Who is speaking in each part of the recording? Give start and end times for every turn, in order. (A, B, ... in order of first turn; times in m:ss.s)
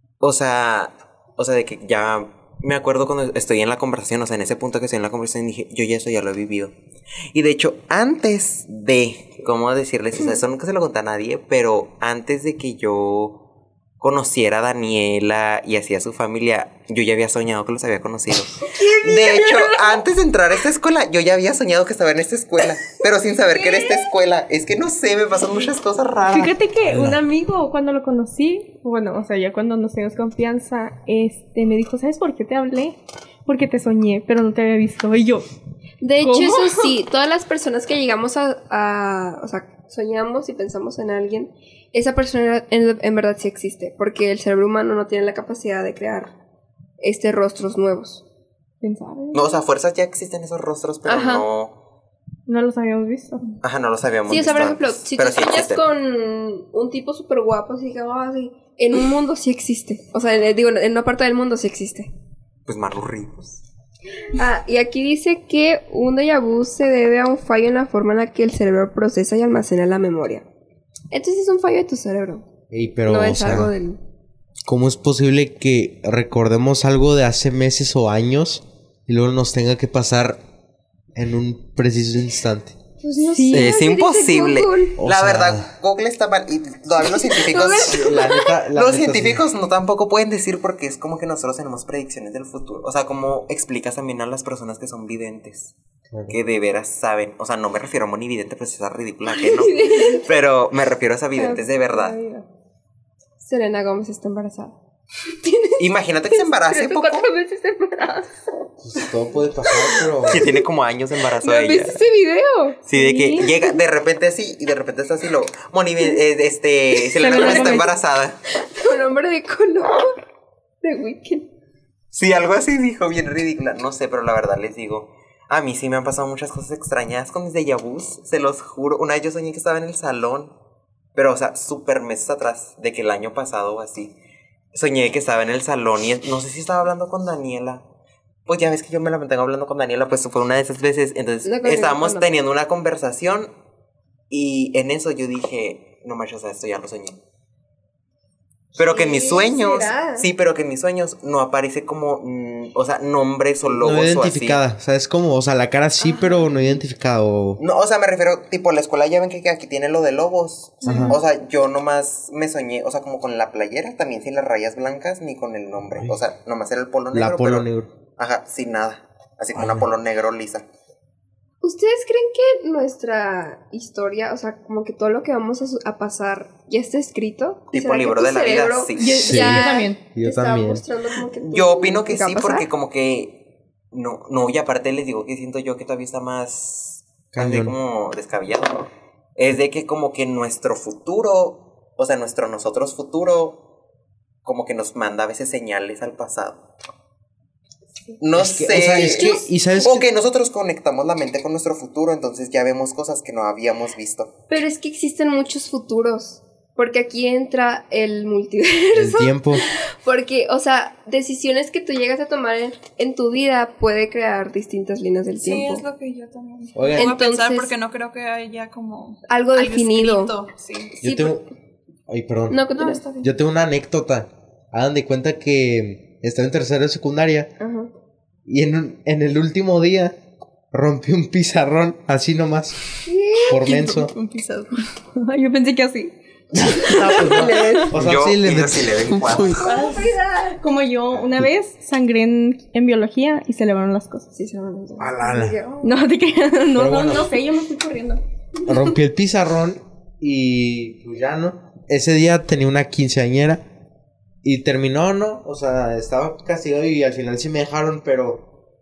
0:00.2-0:06.7 A
0:07.3-0:13.4 A
0:14.0-0:26.6 A
0:18.7-0:20.0 B
0:23.6-0:24.1 B
0:26.3-0:35.5 C
0:26.9-0:27.2 D
0:36.0-0:46.3 B
0:36.2-0:36.9 C
0:47.0-0:48.2 B
0:48.8-0:49.4 C
0:49.3-0:51.8 A
0:51.0-0:51.5 B
0:52.5-0:53.4 C
0:53.6-0:55.8 A
0:54.3-1:02.1 B
1:02.7-1:03.6 A
1:04.4-1:10.5 B
1:11.1-1:12.5 B
1:12.7-1:13.7 D
1:13.0-1:14.0 B
1:14.6-1:20.4 D
1:21.2-1:22.8 D
1:23.0-1:25.0 B
1:23.3-1:23.8 C
1:23.5-1:35.7 A
1:25.0-1:25.7 D
1:27.0-1:28.6 B
1:27.9-1:29.4 D
1:36.1-1:36.4 D
1:36.3-1:42.2 A
1:39.3-1:40.3 B
1:41.4-1:42.4 B
1:43.4-1:44.8 B
1:45.4-1:48.4 B
1:45.8-1:47.3 A
1:48.8-1:50.5 D
1:49.7-1:50.6 B
1:50.3-1:52.0 A
1:51.3-1:53.8 B
1:52.9-1:58.4 A
1:53.0-1:53.4 C
1:57.0-1:57.9 B
1:57.2-1:57.9 C
1:58.6-2:00.2 B
2:00.8-2:01.5 B
2:02.1-2:10.5 A
2:11.2-2:14.2 A
2:14.7-2:17.8 A
2:18.5-2:23.5 A
2:21.4-2:22.3 B
2:24.3-2:27.2 A
2:28.8-2:30.3 B
2:28.8-2:34.6 A
2:33.8-2:37.6 D
2:36.0-2:36.8 B
2:37.6-2:50.7 A
2:40.8-2:41.2 D
2:47.1-2:47.9 D
2:49.6-2:49.9 D
2:51.6-3:02.7 B
2:57.7-2:59.3 A
2:59.0-3:00.0 C
2:59.2-3:00.8 D
3:01.4-3:13.6 A
3:07.3-3:07.8 D
3:14.4-3:16.6 A
3:18.2-3:24.3 A
3:18.4-3:20.1 D
3:19.1-3:19.4 B
3:24.5-3:35.8 B
3:28.9-3:29.6 D
3:35.4-3:41.0 E
3:36.8-3:37.2 D
3:37.0-3:37.7 B
3:39.3-3:40.3 B
3:41.0-3:41.5 D
3:41.0-3:41.4 B
3:42.1-3:42.7 D
3:42.5-3:43.0 B
3:42.8-3:43.3 E
3:43.2-3:47.5 D
3:47.6-3:47.9 B
3:48.5-3:50.2 D
3:50.7-3:52.8 D
3:53.0-3:53.6 B
3:53.4-3:54.9 E
3:53.5-3:54.1 D
3:55.2-3:56.1 C
3:56.6-3:59.6 D
3:56.7-3:57.8 C
3:57.3-3:57.9 B
3:57.9-3:59.8 A
3:59.6-4:00.6 B
3:59.7-4:00.0 E
3:59.7-4:00.0 C
4:00.6-4:04.3 C
4:04.3-4:06.0 B
4:05.0-4:05.6 D
4:05.8-4:08.2 C
4:06.8-4:07.4 D
4:08.7-4:13.6 D
4:14.4-4:18.5 D